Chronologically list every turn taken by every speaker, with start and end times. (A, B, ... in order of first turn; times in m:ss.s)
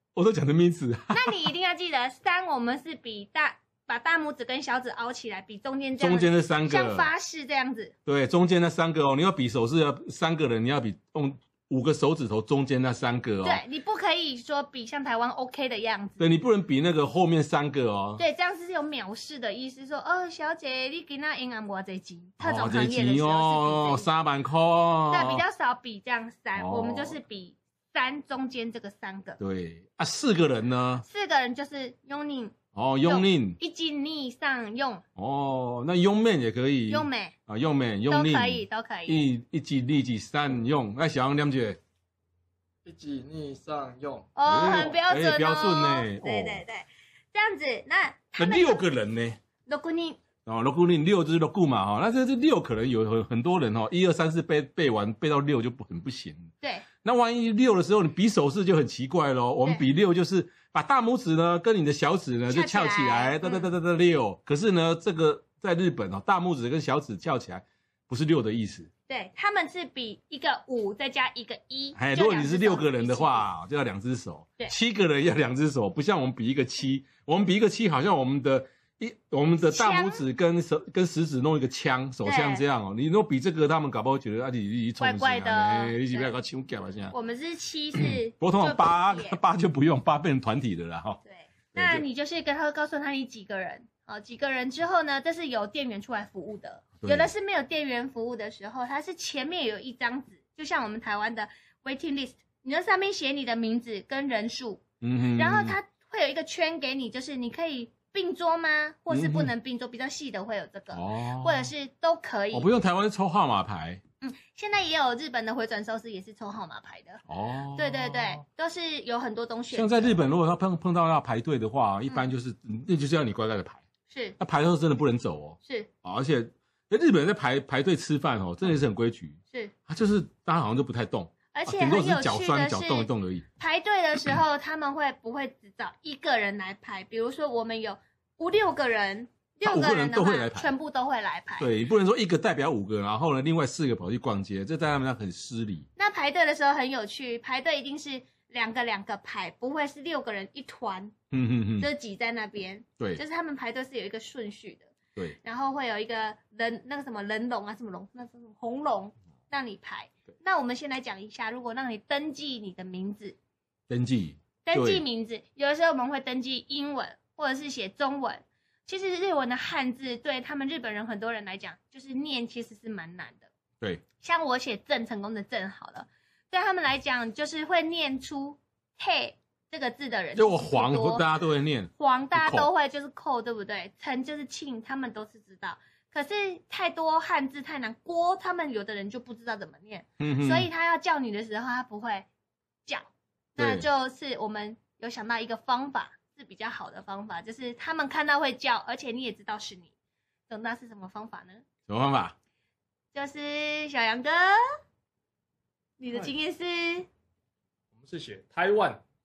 0:00.2-0:01.4 A
0:01.1-0:07.9 B
0:06.0-0:07.1 A
0:08.1-0:13.6 A
0:13.4-0:16.2 B
0:16.2-0:18.2 A
0:18.2-0:24.1 B
0:22.4-0:25.4 A
0:25.1-0:29.4 B
0:26.6-0:27.2 A
0:29.4-0:31.0 A
0:31.0-0:35.0 B
0:32.7-0:33.6 A
0:35.2-0:41.8 A
0:36.9-0:37.4 B
0:38.1-0:39.2 B
0:42.8-0:45.0 C
0:44.4-0:48.8 B
0:44.5-0:46.6 A
0:48.4-0:49.4 A
0:49.7-0:50.2 B
0:50.4-1:08.9 A
1:02.5-1:03.7 B
1:09.1-1:13.5 B
1:12.0-1:27.1 A
1:19.6-1:20.2 B
1:22.2-1:22.6 B
1:25.0-1:26.3 B
1:27.1-1:29.4 B
1:28.0-1:31.2 A
1:31.2-1:44.8 B
1:31.7-1:32.0 A
1:37.0-1:37.3 A
1:45.0-1:45.8 A
1:45.4-1:52.7 B
1:49.1-1:49.5 A
1:50.9-1:51.7 A
1:52.5-1:54.0 A
1:54.2-1:57.2 B
1:57.3-1:58.4 A
1:57.8-2:00.2 B
1:59.7-2:03.8 A
2:04.1-2:04.4 B
2:04.4-2:13.4 A
2:11.5-2:21.7 B
2:19.6-2:20.7 A
2:21.6-2:25.9 A
2:26.0-2:31.1 B
2:31.3-2:31.9 A
2:31.8-2:43.4 B
2:43.9-2:45.0 A
2:44.6-2:53.5 B
2:54.2-3:01.2 B
3:00.4-3:02.7 A
3:02.0-3:12.3 B
3:10.2-3:10.7 A
3:12.9-3:19.9 B
3:13.6-3:13.9 A
3:20.5-3:21.6 B
3:21.9-3:22.4 A
3:23.1-3:24.6 B
3:26.0-3:27.1 B
3:28.0-3:29.0 C